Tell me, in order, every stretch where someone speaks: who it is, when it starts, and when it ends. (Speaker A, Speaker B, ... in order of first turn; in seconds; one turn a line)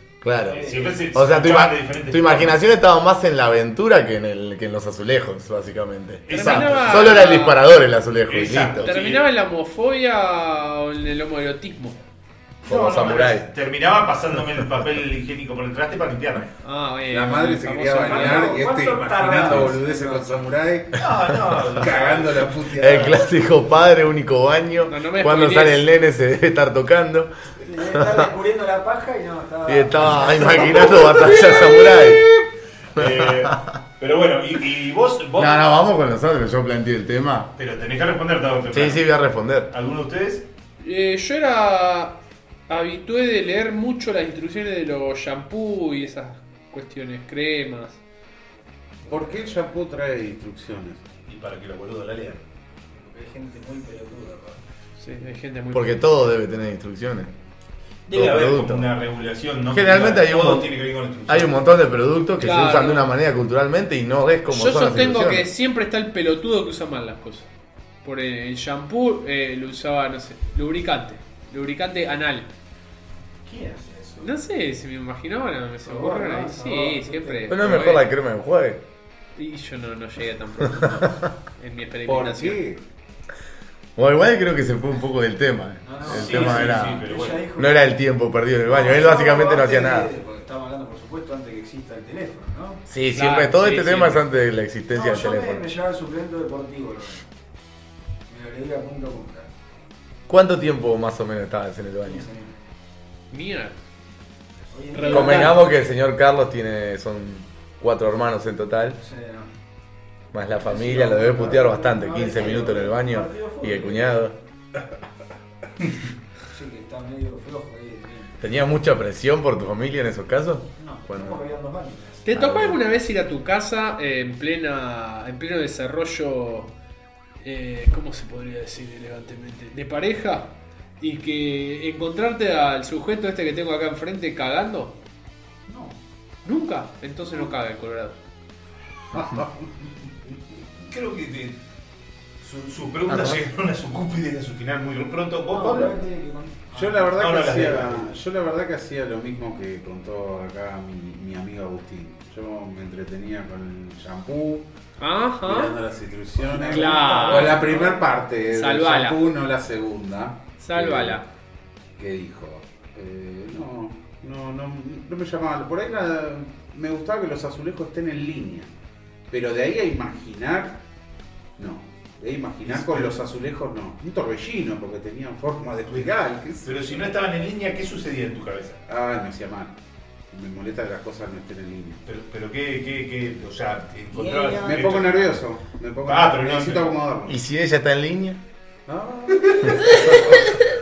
Speaker A: 0.2-8.9
Speaker B: 0.4-2.6
Speaker C: 0.6-1.0
Speaker B: 6.3-9.3
Speaker D: 6.3-7.6
Speaker D: 8.8-12.0
Speaker A: 12.6-13.5
Speaker B: 12.6-16.5
Speaker D: 16.6-18.6
Speaker E: 17.1-23.2
Speaker C: 18.0-20.3
Speaker B: 20.9-22.5
Speaker A: 22.8-27.3
Speaker D: 24.8-25.9
Speaker C: 27.6-31.9
Speaker A: 27.8-28.3
Speaker A: 29.6-32.2
Speaker B: 32.9-35.7
Speaker A: 33.0-33.6
Speaker A: 35.4-37.5
Speaker B: 37.6-39.1
Speaker A: 38.7-39.7
Speaker B: 39.7-40.5
Speaker D: 40.8-48.0
Speaker E: 49.0-51.0
Speaker B: 51.3-52.4
Speaker C: 52.9-54.6
Speaker D: 55.0-56.0
Speaker A: 55.7-57.3
Speaker B: 58.1-61.6
Speaker A: 58.1-58.9
Speaker A: 59.7-60.7
Speaker A: 61.3-65.5
Speaker D: 62.4-63.1
Speaker D: 64.5-67.5
Speaker D: 68.0-72.5
Speaker C: 73.4-74.3
Speaker D: 74.2-78.1
Speaker C: 75.8-77.6
Speaker A: 77.5-78.8
Speaker D: 79.3-82.6
Speaker A: 80.7-81.3
Speaker E: 82.0-82.8
Speaker A: 84.0-90.1
Speaker C: 85.8-87.8
Speaker B: 86.0-87.5
Speaker C: 88.6-92.8
Speaker A: 92.9-95.6
Speaker D: 93.1-94.2
Speaker C: 94.9-97.2
Speaker C: 98.3-99.5
Speaker A: 100.3-102.3
Speaker C: 102.0-102.6
Speaker D: 103.3-103.8
Speaker C: 104.7-105.6
Speaker D: 104.9-105.5
Speaker A: 105.0-109.0
Speaker C: 109.0-109.5
Speaker A: 110.3-114.3
Speaker C: 110.6-114.2
Speaker C: 116.5-118.5
Speaker A: 118.4-121.4
Speaker C: 120.8-122.5
Speaker D: 122.3-126.7
Speaker A: 122.3-122.8
Speaker D: 127.4-134.9
Speaker C: 135.7-136.0
Speaker D: 136.4-138.1
Speaker E: 139.1-140.3
Speaker B: 140.9-141.6
Speaker B: 142.4-145.9
Speaker A: 143.1-143.4
Speaker C: 145.5-147.3
Speaker E: 146.7-154.7
Speaker B: 147.1-148.1
Speaker D: 155.0-155.8
Speaker E: 155.4-161.2
Speaker C: 156.4-158.0
Speaker D: 156.6-157.8
Speaker D: 158.5-159.2
Speaker D: 160.6-161.2
Speaker E: 162.0-168.7
Speaker E: 169.3-170.8
Speaker E: 171.6-176.7
Speaker B: 172.6-173.2
Speaker B: 176.6-178.8
Speaker E: 178.8-179.7
Speaker E: 180.3-182.0
Speaker B: 182.1-185.4
Speaker C: 184.1-184.9
Speaker E: 184.6-187.3
Speaker B: 186.0-186.9
Speaker A: 187.3-188.4
Speaker E: 188.9-190.6